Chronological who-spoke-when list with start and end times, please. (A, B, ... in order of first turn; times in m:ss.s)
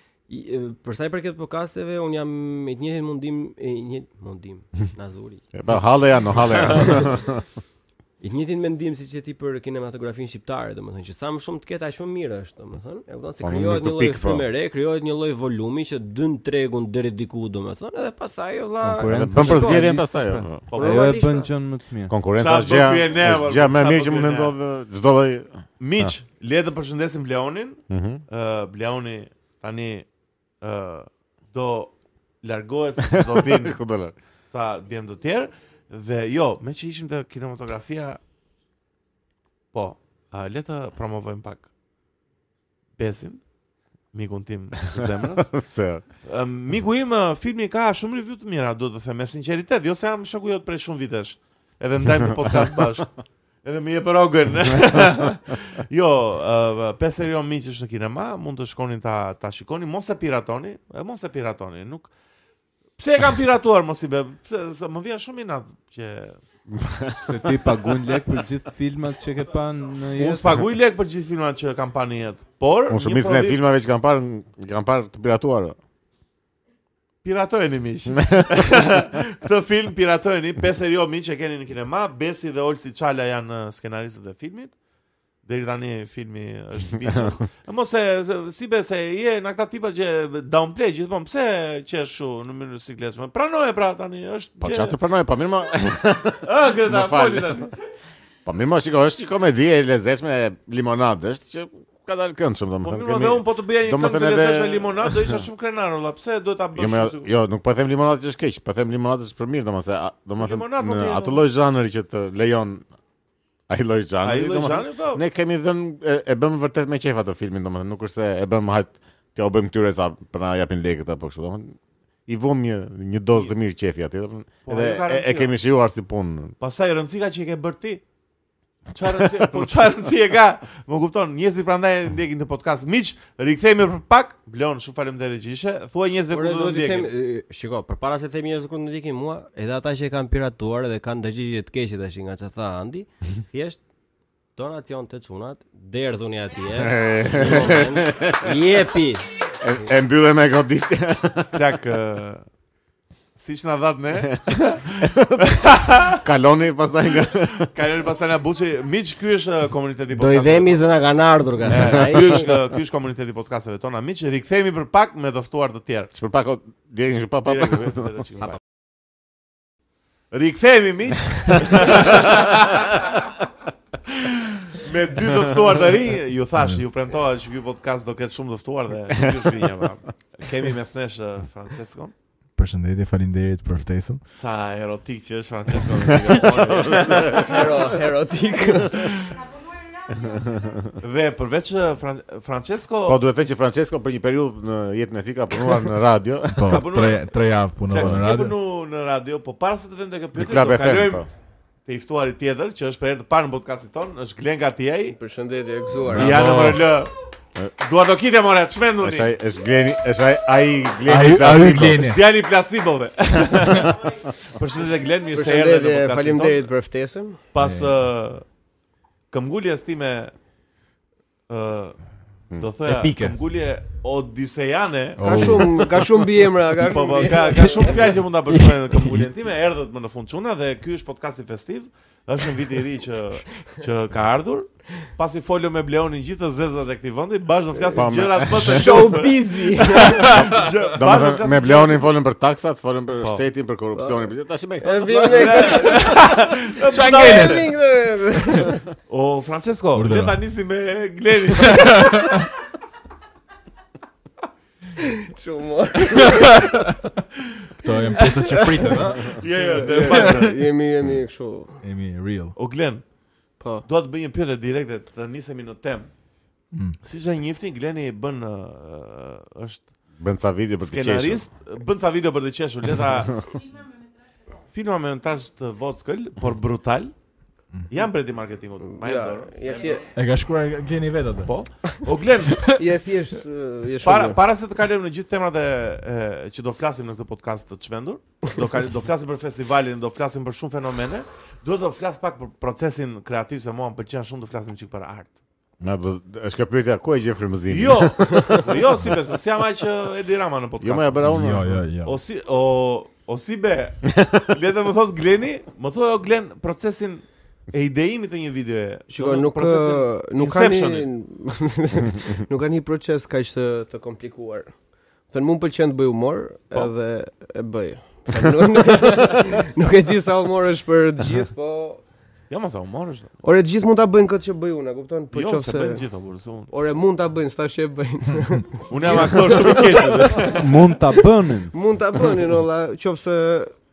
0:00.3-0:05.5 A
0:05.5-0:07.4 B
0:06.7-0:07.2 A
0:08.2-0:20.0 A
0:13.4-0:14.5 B
0:18.8-0:22.1 C
0:19.1-0:20.6 B
0:20.7-0:21.2 D
0:20.7-0:21.5 A
0:22.1-0:26.1 B
0:22.4-0:24.5 D
0:25.8-0:30.1 D
0:27.9-0:28.2 B
0:30.6-0:33.8 D
0:33.2-0:34.2 B
0:34.5-0:38.2 D
0:39.7-0:41.7 D
0:43.0-0:43.4 D
0:44.1-0:45.6 D
0:45.5-0:46.0 B
0:46.2-1:02.1 D
1:03.0-1:06.4 D
1:06.7-1:07.4 B
1:07.3-1:10.6 C
1:10.2-1:13.6 D
1:12.9-1:15.8 B
1:17.2-1:24.7 D
1:25.4-1:35.0 D
1:34.6-1:37.6 B
1:36.4-1:37.7 D
1:38.4-1:45.4 B
1:42.8-1:47.3 D
1:46.8-1:52.8 B
1:50.4-1:51.4 D
1:53.7-2:06.5 B
1:54.2-1:55.2 D
2:04.7-2:05.5 D
2:06.6-2:08.0 D
2:08.9-2:17.1 D
2:16.3-2:23.8 A
2:24.6-2:29.3 A
2:26.8-2:28.6 B
2:29.6-2:31.6 B
2:31.6-2:32.5 D
2:33.4-2:36.2 D
2:35.0-2:35.4 B
2:36.2-2:37.7 B
2:37.6-2:40.9 D
2:40.1-2:42.5 A
2:41.7-2:46.1 D
2:46.1-2:48.1 B
2:47.5-2:48.6 D
2:50.3-2:53.2 D
2:54.1-3:02.1 D
3:02.6-3:04.2 E
3:04.3-3:07.9 D
3:06.4-3:07.5 B
3:07.3-3:09.1 F
3:10.2-3:10.9 B
3:11.0-3:13.2 D
3:13.0-3:16.8 B
3:16.6-3:18.6 E
3:16.7-3:17.3 D
3:17.9-3:21.3 D
3:20.4-3:21.3 B
3:21.9-3:25.2 D
3:25.1-3:26.4 F
3:26.1-3:27.1 D
3:26.1-3:26.9 E
3:27.8-3:29.3 D
3:29.0-3:32.1 B
3:31.0-3:32.2 E
3:32.0-3:36.7 D
3:35.3-3:37.4 F
3:37.5-3:38.4 D
3:37.6-3:37.9 E
3:39.3-3:40.3 D
3:41.5-3:42.0 D
3:42.6-3:45.5 D
3:42.8-3:43.4 E
3:45.2-3:46.1 E
3:45.2-3:48.1 F
3:46.8-4:02.1 D
3:48.5-3:49.3 E
3:57.8-3:58.1 F
3:58.0-3:58.8 B
3:58.6-4:00.3 F
4:00.3-4:06.1 B
4:04.0-4:04.2 F
4:04.8-4:06.2 F
4:05.2-4:07.6 D
4:06.9-4:07.6 E
4:07.0-4:08.8 F
4:09.1-4:12.2 D
4:10.0-4:10.4 E
4:11.7-4:12.5 E
4:15.0-4:16.6 F
4:16.2-4:17.1 E
4:17.8-4:19.4 E
4:18.2-4:21.8 F
4:19.2-4:20.6 D
4:20.0-4:20.5 E
4:21.8-4:22.6 E
4:22.6-4:23.1 D
4:23.6-4:23.8 F
4:23.8-4:26.1 D
4:26.7-4:27.0 E
4:27.0-4:29.9 D
4:30.2-4:31.4 B
4:30.8-4:33.5 D
4:34.7-4:37.1 D
4:37.9-4:39.9 D
4:39.0-4:40.1 F
4:40.1-4:41.6 E
4:41.4-4:42.6 D
4:42.5-4:42.8 E
4:42.8-4:44.4 F
4:44.0-4:55.4 D
4:55.8-4:58.6 B
4:57.7-5:01.4 D
5:00.8-5:01.8 B
5:01.2-5:02.2 E
5:02.0-5:11.1 D
5:09.1-5:14.7 F
5:15.3-5:22.0 F
5:22.5-5:23.3 D
5:23.4-5:26.0 F
5:25.3-5:26.7 D
5:26.7-5:30.5 F
5:28.9-5:30.8 D
5:30.6-5:31.7 C
5:31.7-5:33.7 F